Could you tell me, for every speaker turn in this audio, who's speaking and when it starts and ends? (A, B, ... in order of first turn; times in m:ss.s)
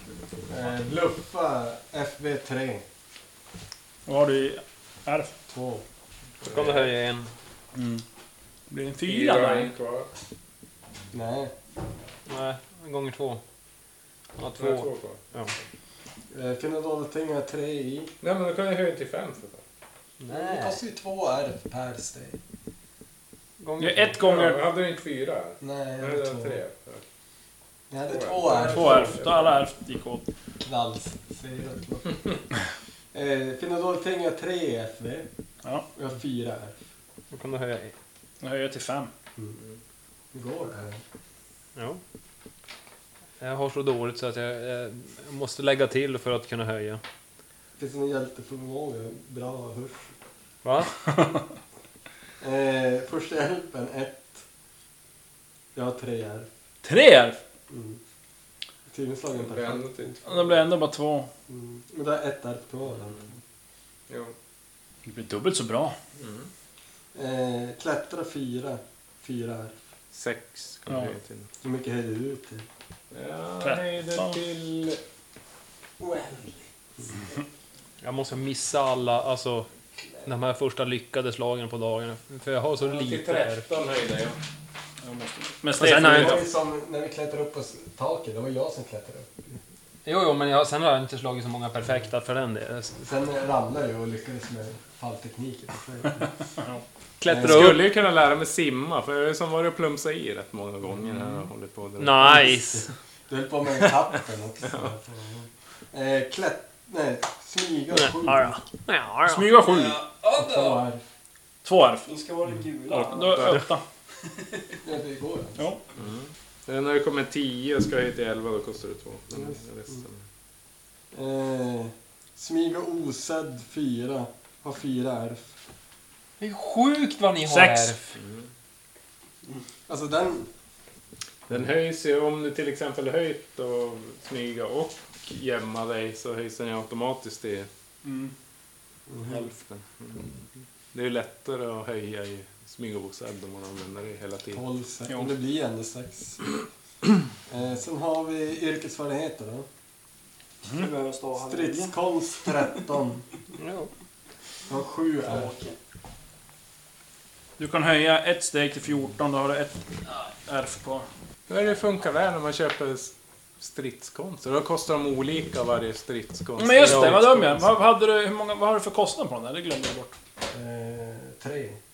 0:00.5-0:02.8 A
0:04.1-0:05.3 B
0:05.5-0:05.8 A
0:06.4-0:06.9 C
0:06.5-0:07.3 D
0:07.8-0:08.0 B
0:08.7-0:09.7 B
0:09.0-0:10.1 C
0:11.1-0:11.5 A
0:12.3-0:13.4 D
0:14.4-0:15.5 D
0:14.6-0:15.3 C
0:16.3-0:18.1 A
0:18.2-0:19.6 C
0:20.2-0:20.8 D
0:20.3-0:22.4 A
0:23.6-0:24.2 D
0:23.8-0:24.6 B
0:24.2-0:27.0 C
0:25.6-0:26.6 A
0:27.9-0:29.2 A
0:28.1-0:29.5 C
0:28.6-0:30.2 B
0:30.6-0:32.2 A
0:33.1-0:35.3 A
0:36.0-0:36.8 A
0:37.3-0:38.0 D
0:38.4-0:39.1 B
0:40.3-0:41.0 A
0:41.8-0:42.0 D
0:43.4-0:47.0 D
0:47.8-0:50.1 A
0:50.6-0:50.9 D
0:52.4-0:54.4 A
0:55.8-0:56.5 A
0:56.8-0:57.4 B
0:57.7-0:58.0 A
0:58.9-1:00.5 A
0:59.4-1:00.2 C
1:00.2-1:01.3 B
1:01.5-1:03.3 A
1:04.1-1:04.4 C
1:05.1-1:06.0 B
1:06.2-1:06.5 C
1:07.2-1:09.8 A
1:10.1-1:11.5 C
1:11.6-1:12.7 A
1:13.1-1:15.0 C
1:13.6-1:14.4 B
1:16.2-1:16.5 C
1:18.0-1:19.7 D
1:20.2-1:23.7 D
1:22.8-1:24.4 C
1:25.0-1:26.4 B
1:25.8-1:26.4 D
1:25.9-1:29.6 A
1:30.0-1:33.0 D
1:33.0-1:36.3 A
1:37.2-1:37.9 D
1:37.3-1:37.8 A
1:37.4-1:42.5 C
1:42.0-1:42.9 D
1:42.2-1:48.6 A
1:48.0-1:50.0 D
1:49.3-1:50.0 B
1:50.2-1:50.8 E
1:50.3-1:51.0 A
1:51.6-1:52.1 B
1:52.1-1:53.5 E
1:52.9-1:53.8 B
1:53.3-1:53.6 C
1:54.8-1:55.7 A
1:56.0-2:00.2 C
2:01.1-2:05.5 A
2:06.4-2:08.1 D
2:07.5-2:08.0 B
2:08.2-2:08.5 C
2:09.9-2:10.5 A
2:11.5-2:17.7 C
2:18.0-2:18.3 B
2:19.1-2:19.5 A
2:19.3-2:24.6 C
2:24.5-2:26.4 A
2:27.5-2:29.7 A
2:30.6-2:32.0 E
2:31.4-2:33.2 A
2:33.6-2:33.9 D
2:34.7-2:35.5 A
2:35.3-2:35.8 E
2:37.6-2:41.1 B
2:41.5-2:47.6 C
2:46.6-2:50.2 B
2:50.5-2:51.8 A